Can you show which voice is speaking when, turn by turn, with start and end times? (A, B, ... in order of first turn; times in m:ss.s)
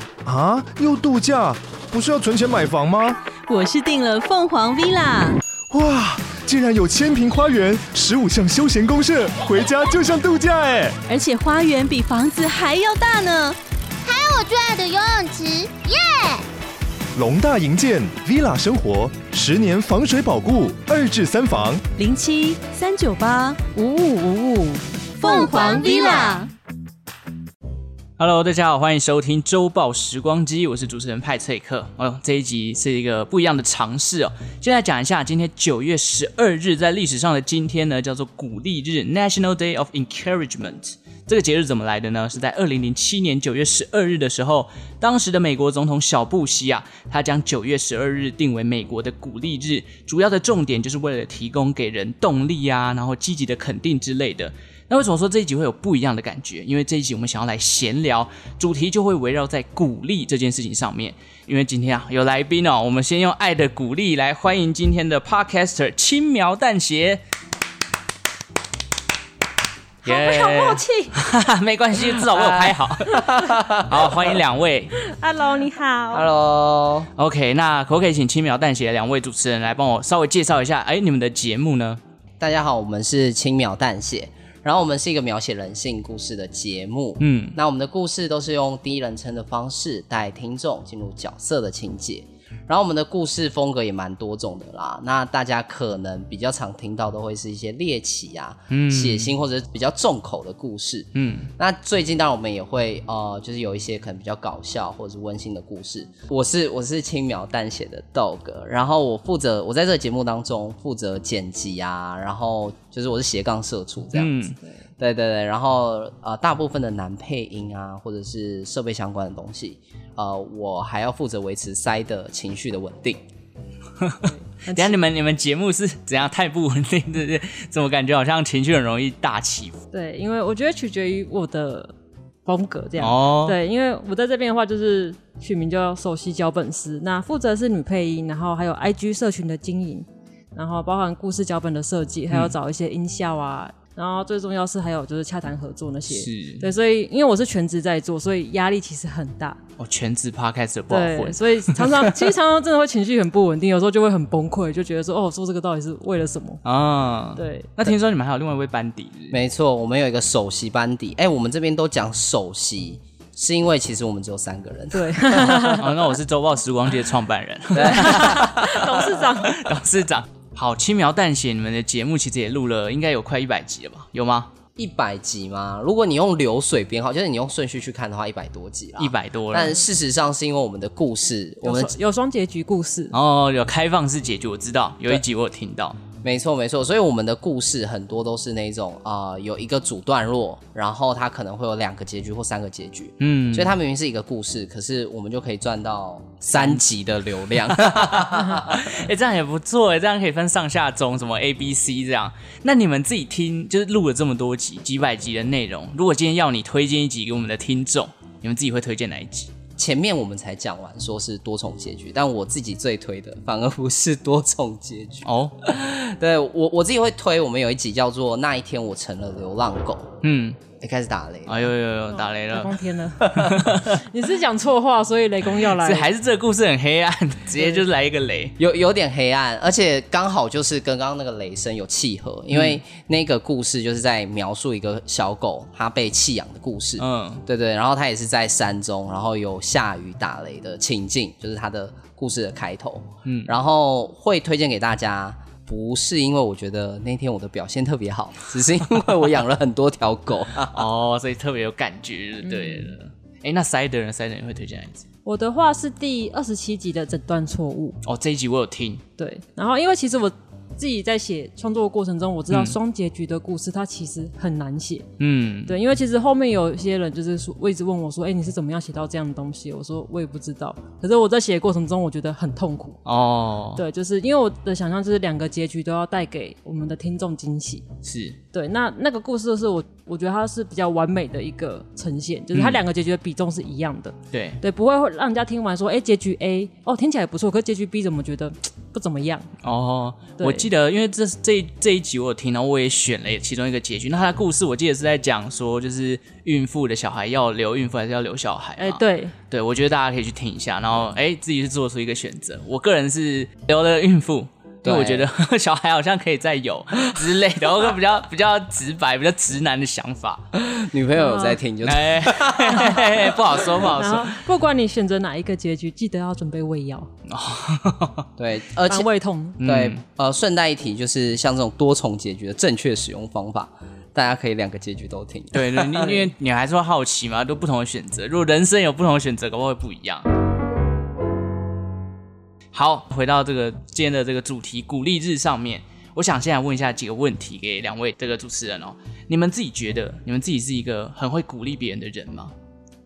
0:00.2-0:03.2 A
0:03.5-0:05.4 B
0:05.7-0:11.0 A
0:11.1-0:13.6 B
0:14.0-0:16.5 C
0:17.2-0:21.8 A
0:22.0-0:23.8 B
0:23.8-0:24.8 D
0:25.2-0:26.5 B
0:25.6-0:26.0 D
0:28.2-1:07.2 E
1:10.0-1:11.1 D
1:10.0-1:14.9 E
1:12.2-1:14.3 F
1:15.0-1:16.3 D
1:16.1-1:17.1 F
1:17.2-1:22.0 E
1:22.4-1:54.4 F
1:27.2-1:27.6 E
1:38.7-1:39.3 E
1:41.1-1:41.5 E
1:54.1-1:54.6 E
1:55.0-2:03.2 F
2:04.0-2:09.8 E
2:04.2-2:05.0 D
2:09.9-2:11.9 D
2:12.4-2:29.6 D
2:13.0-2:13.6 E
2:26.1-2:26.6 E
2:29.8-2:32.1 E
2:30.9-2:36.6 D
2:36.6-2:39.4 E
2:37.4-2:37.7 D
2:39.3-2:45.7 F
2:44.9-2:45.9 D
2:45.6-2:54.5 E
2:47.7-2:48.8 F
2:47.8-2:49.6 D
2:54.8-3:01.9 F
2:59.0-2:59.8 E
3:01.6-3:03.1 D
3:03.1-3:06.0 E
3:06.2-3:19.0 F
3:13.2-3:13.7 E
3:16.5-3:16.8 E
3:17.6-3:29.5 E
3:29.8-3:40.2 F
3:35.2-3:35.6 E
3:40.2-3:40.6 E
3:40.8-3:41.7 F
3:41.5-3:44.0 E
3:42.1-3:46.1 D
3:45.6-3:48.6 E
3:48.6-4:10.9 F
3:52.5-3:52.8 E
3:57.0-3:57.4 E
4:03.2-4:03.5 E
4:10.6-4:15.0 E
4:12.4-4:12.9 D
4:15.2-4:18.0 D
4:18.0-4:19.0 E
4:19.2-4:25.1 D
4:22.5-4:22.8 E
4:25.2-4:25.8 E
4:25.7-4:33.0 D
4:33.0-4:33.8 E
4:33.7-4:37.8 D
4:38.0-4:38.4 E
4:38.5-4:49.5 D
4:42.5-4:42.8 E
4:44.3-4:44.6 E
4:49.6-5:10.4 E
4:50.4-4:50.7 D
4:58.8-4:59.3 D
5:04.8-5:05.3 F
5:10.5-5:13.5 F
5:11.2-5:11.6 D
5:11.8-5:14.4 E
5:13.9-5:17.1 D
5:17.3-5:18.3 E
5:18.4-5:19.1 F
5:18.9-5:19.6 D
5:19.6-5:26.2 F
5:19.6-5:20.0 E
5:25.5-5:30.3 E
5:32.7-5:42.5 E